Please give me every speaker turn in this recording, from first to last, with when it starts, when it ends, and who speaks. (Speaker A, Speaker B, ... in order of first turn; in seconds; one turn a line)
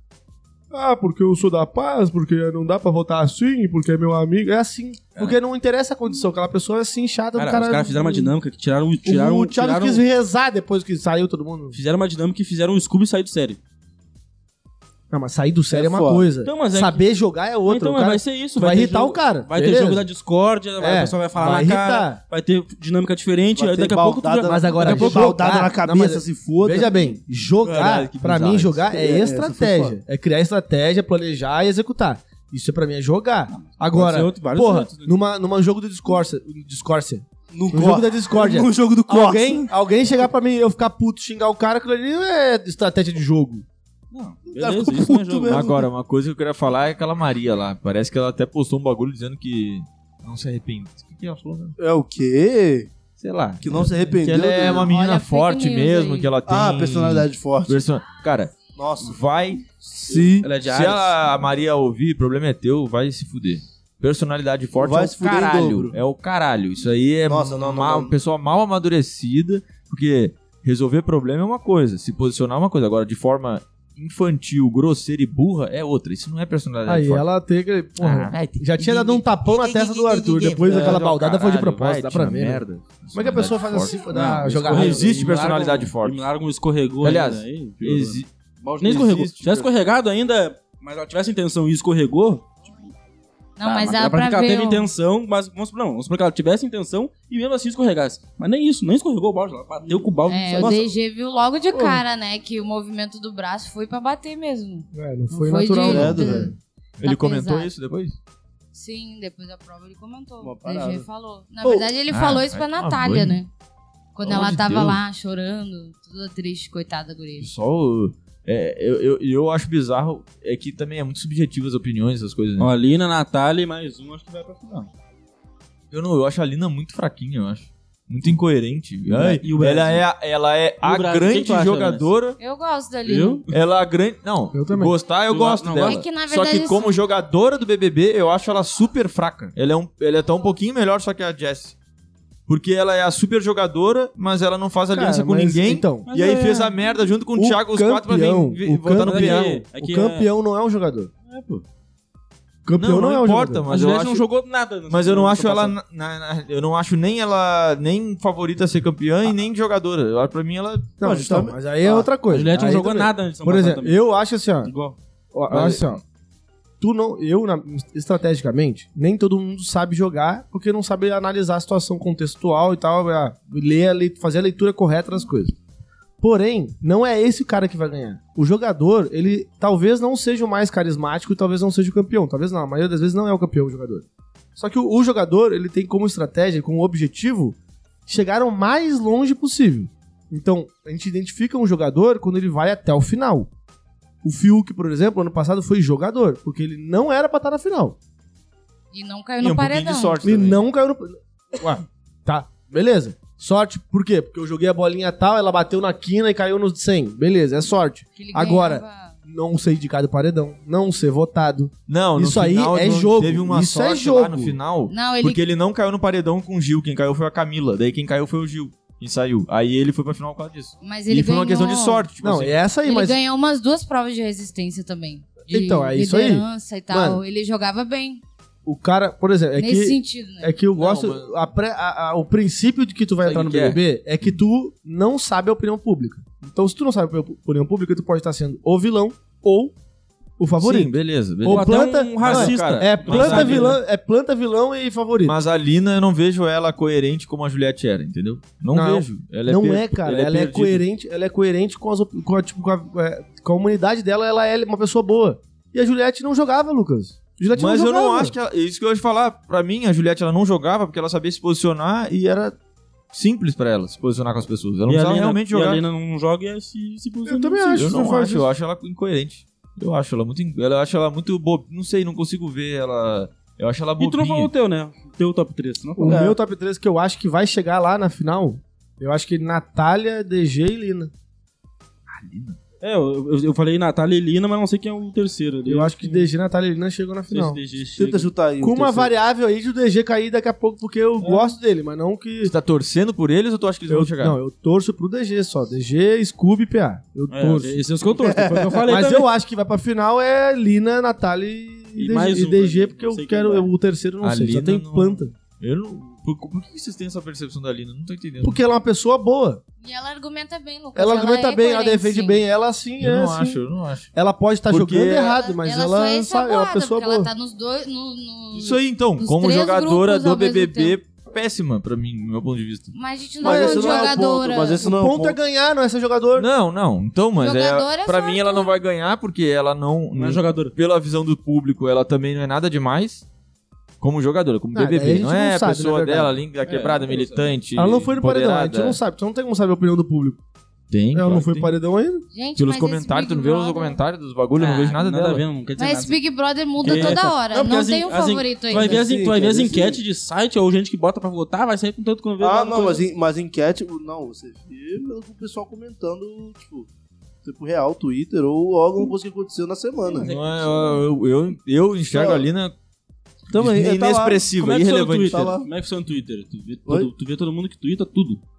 Speaker A: 0.7-8.3
Speaker B: 7.4-10.0
Speaker A: 9.1-11.8
Speaker B: 11.7-13.6
Speaker A: 15.1-20.1
Speaker C: 15.7-16.3
Speaker B: 16.4-17.1
Speaker B: 17.7-25.4
Speaker A: 20.8-22.2
Speaker C: 23.6-27.1
Speaker A: 24.5-43.6
Speaker D: 27.6-28.9
Speaker C: 28.9-30.0
Speaker B: 33.5-35.1
Speaker C: 37.5-39.7
Speaker B: 44.1-45.7
Speaker C: 44.5-45.9
Speaker D: 45.5-51.8
Speaker C: 51.8-52.9
Speaker D: 53.2-77.3
Speaker C: 53.6-54.9
Speaker E: 54.6-56.4
Speaker C: 56.5-57.8
Speaker C: 58.7-59.2
Speaker C: 59.9-60.5
Speaker B: 60.1-61.2
Speaker C: 64.8-66.0
Speaker C: 67.3-68.1
Speaker A: 76.9-85.2
Speaker D: 78.0-86.2
Speaker B: 80.6-81.0
Speaker B: 84.1-92.9
Speaker D: 87.0-88.3
Speaker D: 88.8-89.7
Speaker E: 93.6-94.9
Speaker B: 93.6-100.8
Speaker E: 100.3-107.7
Speaker C: 100.5-100.9
Speaker A: 101.7-102.0
Speaker A: 104.9-106.5
Speaker C: 105.8-106.5
Speaker D: 107.0-108.2
Speaker E: 108.7-113.5
Speaker C: 110.4-111.1
Speaker C: 111.6-111.9
Speaker D: 112.1-113.4
Speaker E: 114.2-117.5
Speaker D: 114.2-115.0
Speaker D: 117.4-122.7
Speaker B: 122.6-124.9
Speaker D: 125.9-132.4
Speaker B: 129.2-130.1
Speaker B: 130.8-132.1
Speaker E: 132.4-133.4
Speaker B: 133.1-133.5
Speaker D: 133.5-141.8
Speaker A: 134.5-134.9
Speaker B: 135.3-136.0
Speaker E: 135.8-136.9
Speaker D: 142.5-149.6
Speaker A: 144.9-146.1
Speaker B: 146.1-146.8
Speaker A: 147.3-151.1
Speaker B: 149.0-150.3
Speaker B: 151.3-151.6
Speaker A: 152.7-153.7
Speaker D: 152.8-154.3
Speaker B: 153.7-155.8
Speaker D: 154.9-160.9
Speaker A: 161.0-164.7
Speaker C: 161.0-162.1
Speaker B: 162.2-164.0
Speaker B: 164.6-165.0
Speaker A: 165.3-166.0
Speaker D: 165.5-165.9
Speaker A: 166.8-175.6
Speaker A: 176.2-193.5
Speaker A: 194.2-198.0
Speaker E: 198.9-200.2
Speaker D: 199.4-200.6
Speaker A: 200.2-214.6
Speaker E: 208.2-209.2
Speaker D: 211.9-222.6
Speaker E: 214.9-215.4
Speaker E: 220.8-222.1
Speaker A: 222.2-223.2
Speaker E: 222.8-228.2
Speaker A: 225.5-227.2
Speaker A: 228.7-239.7
Speaker E: 229.6-230.6
Speaker D: 230.8-231.3
Speaker D: 233.2-234.3
Speaker A: 240.4-245.4
Speaker D: 240.6-243.8
Speaker B: 241.5-243.8
Speaker D: 245.2-250.8
Speaker A: 248.7-258.4
Speaker D: 257.6-262.6
Speaker D: 263.1-265.8
Speaker B: 264.9-267.9
Speaker A: 267.2-268.5
Speaker D: 267.8-274.5
Speaker B: 274.0-276.2
Speaker A: 276.0-281.1
Speaker C: 276.1-276.4
Speaker D: 282.1-282.6
Speaker B: 282.8-286.3
Speaker A: 285.7-287.6
Speaker B: 287.3-288.3
Speaker C: 288.0-289.1
Speaker A: 288.6-292.5
Speaker B: 291.2-291.5
Speaker D: 292.4-294.4
Speaker A: 293.9-297.8
Speaker B: 297.3-299.3
Speaker C: 298.1-298.9
Speaker A: 298.9-305.3
Speaker B: 302.0-303.7
Speaker D: 304.2-308.6
Speaker A: 308.4-309.6
Speaker E: 309.8-312.4
Speaker A: 310.9-313.6
Speaker D: 313.0-314.1
Speaker A: 314.1-317.3
Speaker D: 314.7-315.4
Speaker E: 315.1-321.0
Speaker D: 318.5-322.9
Speaker E: 322.9-324.8
Speaker C: 323.4-325.4
Speaker A: 323.4-324.2
Speaker A: 324.8-326.5
Speaker D: 326.4-333.3
Speaker E: 327.4-328.7
Speaker B: 330.1-330.8
Speaker D: 334.0-339.0
Speaker A: 334.7-336.4
Speaker B: 336.6-337.5
Speaker A: 337.8-340.4
Speaker D: 340.9-341.8
Speaker A: 341.1-342.2
Speaker E: 342.3-344.0
Speaker D: 342.6-345.4
Speaker B: 344.6-346.2
Speaker E: 345.8-349.0
Speaker B: 346.8-353.1
Speaker C: 346.9-347.2
Speaker C: 348.7-350.0
Speaker C: 352.4-356.9
Speaker C: 357.4-360.3
Speaker B: 360.0-361.1
Speaker D: 360.2-362.8
Speaker C: 362.1-362.4
Speaker C: 363.5-364.5
Speaker D: 363.5-365.5
Speaker B: 364.6-368.4
Speaker C: 365.2-365.7